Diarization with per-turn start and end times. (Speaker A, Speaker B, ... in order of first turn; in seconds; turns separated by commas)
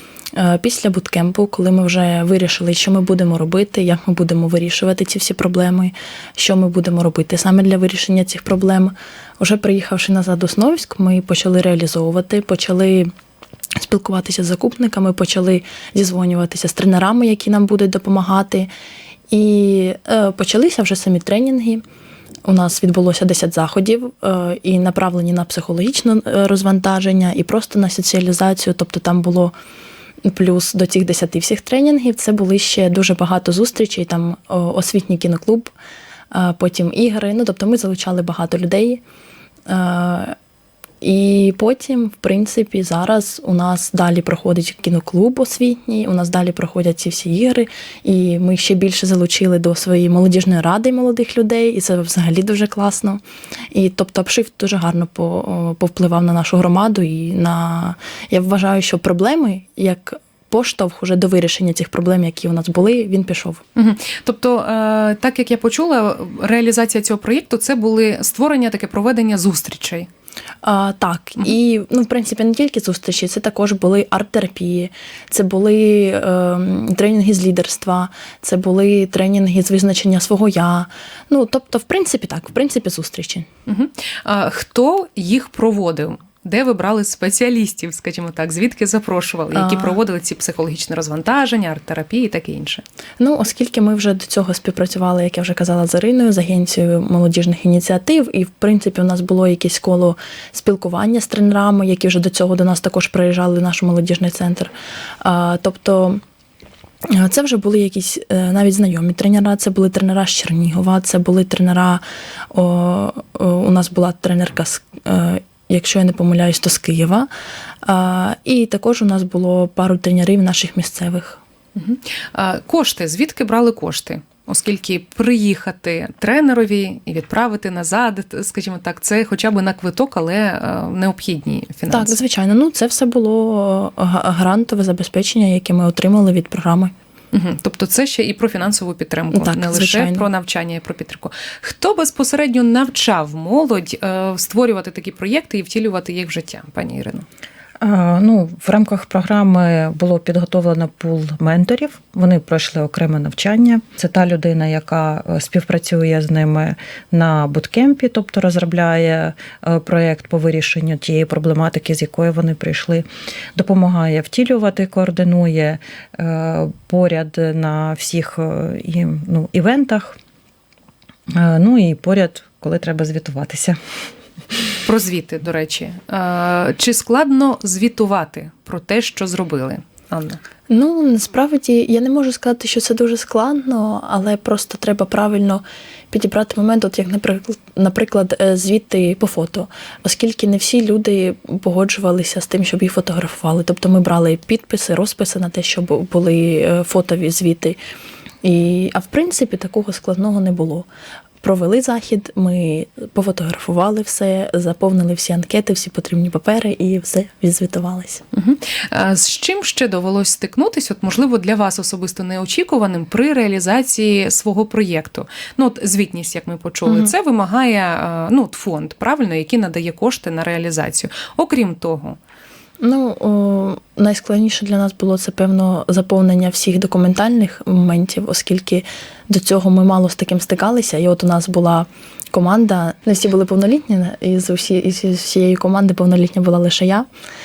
Speaker A: 0.3-13.1, Speaker A: 13.8-18.7, Speaker A: 19.3-21.8, Speaker A: 22.4-29.5, Speaker A: 30.2-35.7, Speaker A: 36.3-39.0, Speaker A: 39.7-40.4, Speaker A: 41.0-63.6, Speaker B: 63.8-70.1, Speaker A: 70.6-83.5, Speaker B: 83.7-92.8, Speaker A: 89.5-90.0, Speaker A: 93.2-106.2, Speaker A: 107.1-117.3, Speaker A: 117.8-121.4, Speaker B: 121.8-132.2, Speaker A: 131.9-136.9, Speaker B: 137.3-147.3, Speaker A: 139.3-140.3, Speaker C: 147.8-170.2, Speaker C: 171.3-173.8, Speaker B: 174.8-180.4, Speaker A: 180.7-197.8, Speaker A: 198.4-200.9, Speaker A: 201.4-208.2, Speaker B: 208.3-222.2, Speaker A: 216.9-217.1, Speaker A: 222.8-237.1